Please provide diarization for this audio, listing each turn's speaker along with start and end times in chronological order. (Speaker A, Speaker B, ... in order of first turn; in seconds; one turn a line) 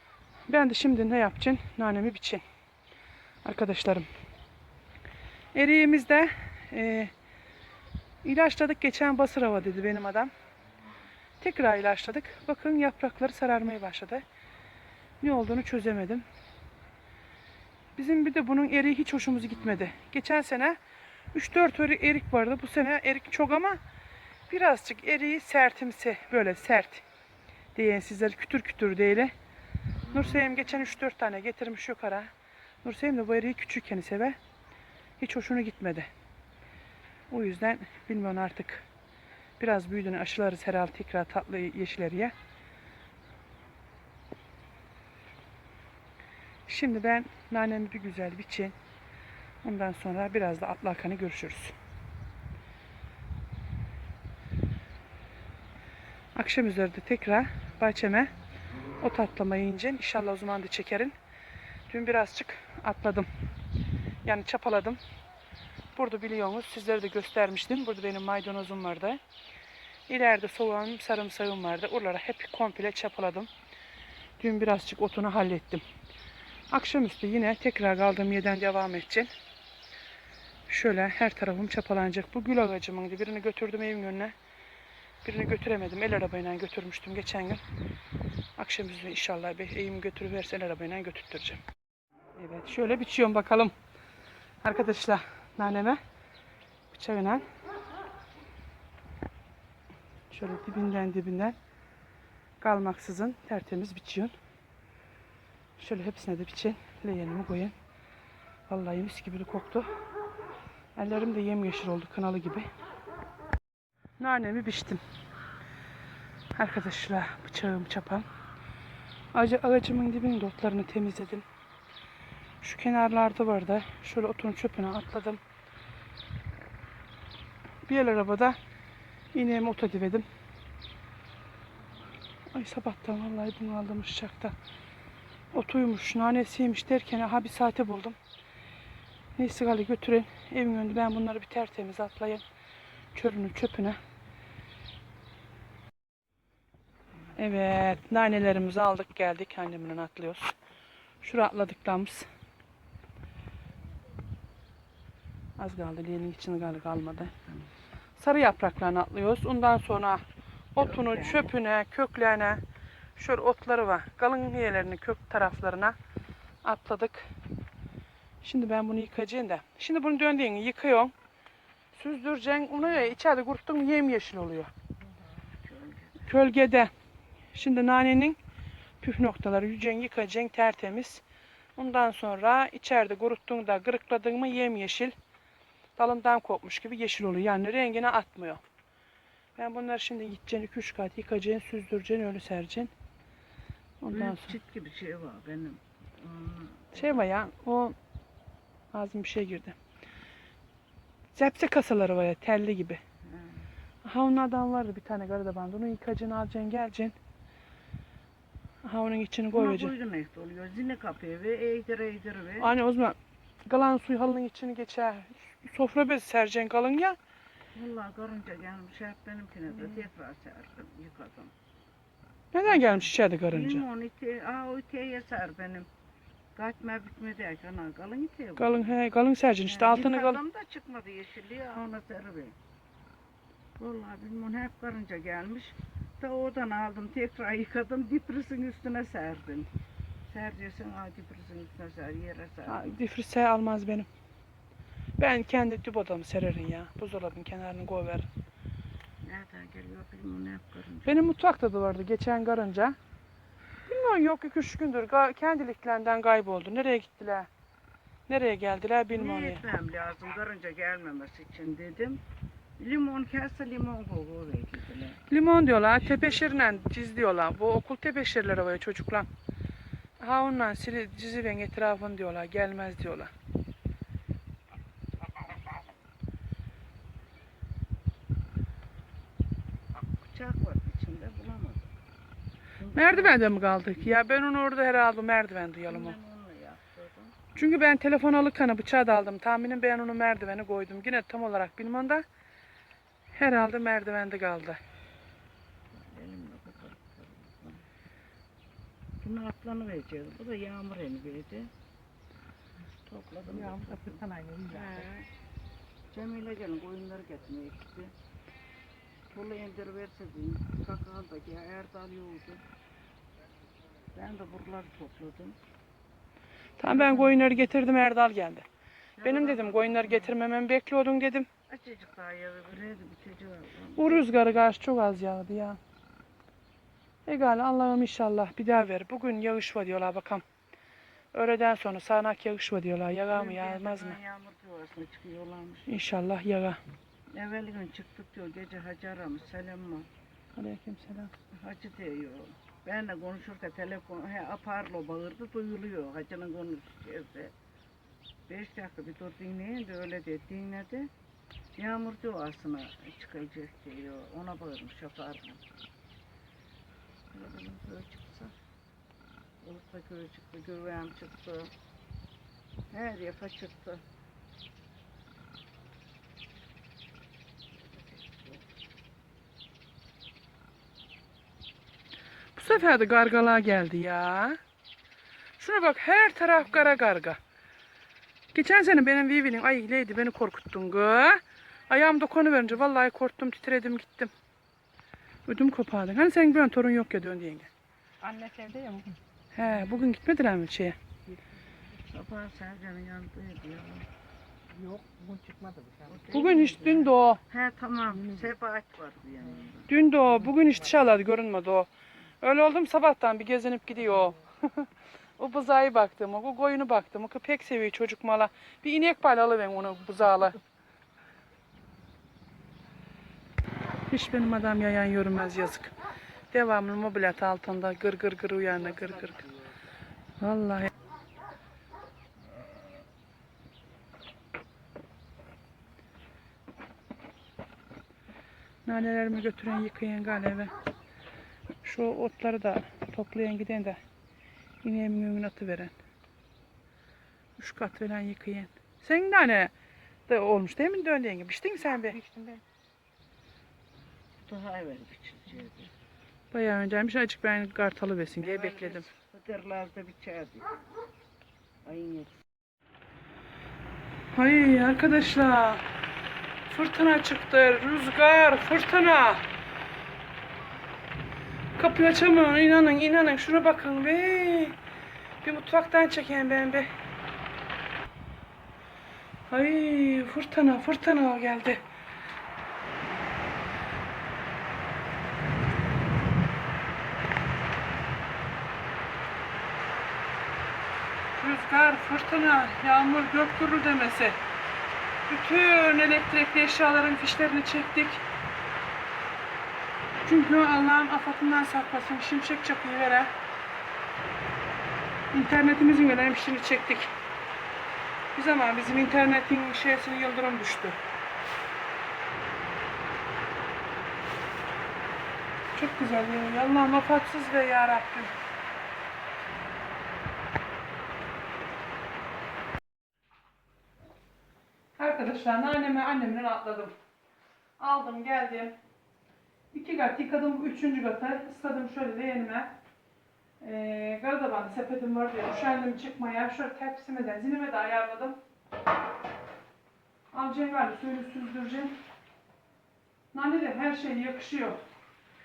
Speaker A: 0.5-2.4
Speaker A: 3.4-4.1
Speaker A: 5.5-7.1
Speaker A: 8.2-10.3
Speaker A: 11.4-14.2
Speaker A: 15.2-16.2
Speaker A: 17.9-20.8
Speaker A: 21.3-23.8
Speaker A: 24.5-27.0
Speaker A: 27.7-29.3
Speaker A: 30.1-32.3
Speaker A: 32.8-34.4
Speaker A: 35.2-36.1
Speaker A: 37.3-38.9
Speaker A: 39.6-42.3
Speaker A: 46.6-48.7
Speaker A: 49.6-51.7
Speaker A: 56.3-58.3
Speaker A: 59.0-61.1
Speaker A: 61.9-63.3
Speaker A: 64.2-65.0
Speaker A: 65.9-69.2
Speaker A: 70.1-73.5
Speaker A: 74.4-75.8
Speaker A: 76.7-79.3
Speaker A: 80.7-84.3
Speaker A: 85.2-87.6
Speaker A: 88.6-91.6
Speaker A: 92.3-93.7
Speaker A: 94.6-96.0
Speaker A: 96.9-97.4
Speaker A: 100.3-101.5
Speaker A: 102.6-104.3
Speaker A: 105.8-107.7
Speaker A: 108.7-109.9
Speaker A: 110.9-112.7
Speaker A: 114.2-115.0
Speaker A: 116.5-118.2
Speaker A: 119.3-121.4
Speaker A: 122.6-125.4
Speaker A: 127.8-128.6
Speaker A: 129.3-130.2
Speaker A: 132.5-134.5
Speaker A: 135.5-138.2
Speaker A: 139.3-142.4
Speaker A: 143.1-144.0
Speaker A: 147.3-150.5
Speaker A: 151.2-152.3
Speaker A: 155.6-157.4
Speaker A: 158.2-160.2
Speaker A: 160.7-162.6
Speaker B: 160.8-161.5
Speaker A: 163.2-165.9
Speaker A: 166.6-167.3
Speaker A: 168.4-171.1
Speaker A: 171.9-174.7
Speaker B: 175.4-176.2
Speaker A: 176.2-176.9
Speaker A: 177.5-178.4
Speaker A: 179.0-181.2
Speaker A: 181.8-185.1
Speaker A: 185.9-188.6
Speaker A: 189.6-192.9
Speaker A: 194.0-194.6
Speaker B: 194.1-197.2
Speaker A: 196.9-197.9
Speaker A: 198.9-199.8
Speaker A: 201.3-203.0
Speaker B: 203.3-203.7
Speaker A: 204.0-207.1
Speaker A: 208.8-209.9
Speaker B: 209.5-212.7
Speaker A: 212.6-217.2
Speaker B: 217.7-221.5
Speaker A: 222.5-223.8
Speaker B: 222.7-225.9
Speaker B: 226.5-228.9
Speaker A: 228.6-230.4
Speaker B: 229.7-232.6
Speaker B: 233.8-239.7
Speaker B: 240.3-242.8
Speaker A: 242.7-244.1
Speaker A: 245.2-248.3
Speaker B: 249.2-251.3
Speaker A: 251.1-252.9
Speaker A: 253.8-257.5
Speaker A: 258.3-259.6
Speaker B: 259.1-262.2
Speaker B: 262.8-265.2
Speaker A: 265.3-269.3
Speaker B: 266.0-266.8
Speaker A: 270.2-273.3
Speaker B: 280.2-281.9
Speaker B: 282.8-283.4
Speaker A: 282.9-286.2
Speaker B: 285.9-287.4
Speaker A: 287.5-292.2
Speaker A: 293.3-294.8
Speaker B: 295.9-297.8
Speaker B: 299.2-301.7
Speaker B: 303.1-305.3
Speaker C: 303.4-305.0
Speaker B: 306.1-308.1
Speaker B: 309.3-312.6
Speaker B: 314.1-315.6
Speaker A: 316.8-318.6
Speaker B: 316.9-317.3
Speaker B: 319.1-320.3
Speaker A: 319.2-321.5
Speaker B: 321.7-324.4
Speaker A: 323.9-325.8
Speaker A: 327.2-330.4
Speaker A: 331.3-334.2
Speaker B: 333.2-335.9
Speaker A: 335.9-336.8
Speaker B: 337.3-340.1
Speaker A: 340.6-341.3
Speaker B: 341.6-347.5
Speaker B: 348.5-351.1
Speaker B: 351.8-355.6
Speaker B: 357.3-358.5
Speaker B: 359.6-361.7
Speaker B: 362.9-364.0
Speaker B: 367.9-368.6
Speaker A: 372.5-374.6
Speaker A: 375.6-377.4
Speaker A: 378.5-384.3
Speaker A: 385.4-387.7
Speaker C: 388.2-389.2
Speaker A: 389.5-391.0
Speaker B: 392.1-394.1
Speaker C: 394.7-396.3
Speaker B: 396.1-399.9
Speaker A: 396.3-397.4
Speaker C: 398.1-398.5
Speaker A: 399.9-401.9
Speaker A: 402.4-410.6
Speaker A: 414.1-415.9
Speaker A: 416.5-419.4
Speaker B: 418.9-419.8
Speaker A: 420.4-420.9
Speaker A: 428.8-430.7
Speaker A: 431.8-434.0
Speaker A: 434.8-435.9
Speaker A: 437.6-439.7
Speaker A: 440.3-442.2
Speaker C: 442.2-442.6
Speaker B: 444.4-445.9
Speaker A: 446.5-449.1
Speaker B: 448.4-450.7
Speaker B: 451.8-452.4
Speaker A: 454.3-455.8
Speaker A: 456.7-459.4
Speaker A: 461.8-464.8
Speaker A: 465.4-466.9
Speaker A: 469.5-471.8
Speaker A: 481.3-484.4
Speaker A: 485.3-488.2
Speaker A: 490.2-493.3
Speaker A: 495.3-497.1
Speaker A: 498.3-501.0
Speaker A: 505.7-508.3
Speaker A: 515.0-516.9
Speaker A: 517.8-518.7
Speaker A: 519.7-522.7
Speaker A: 523.6-528.4
Speaker A: 530.3-532.0
Speaker A: 533.3-534.8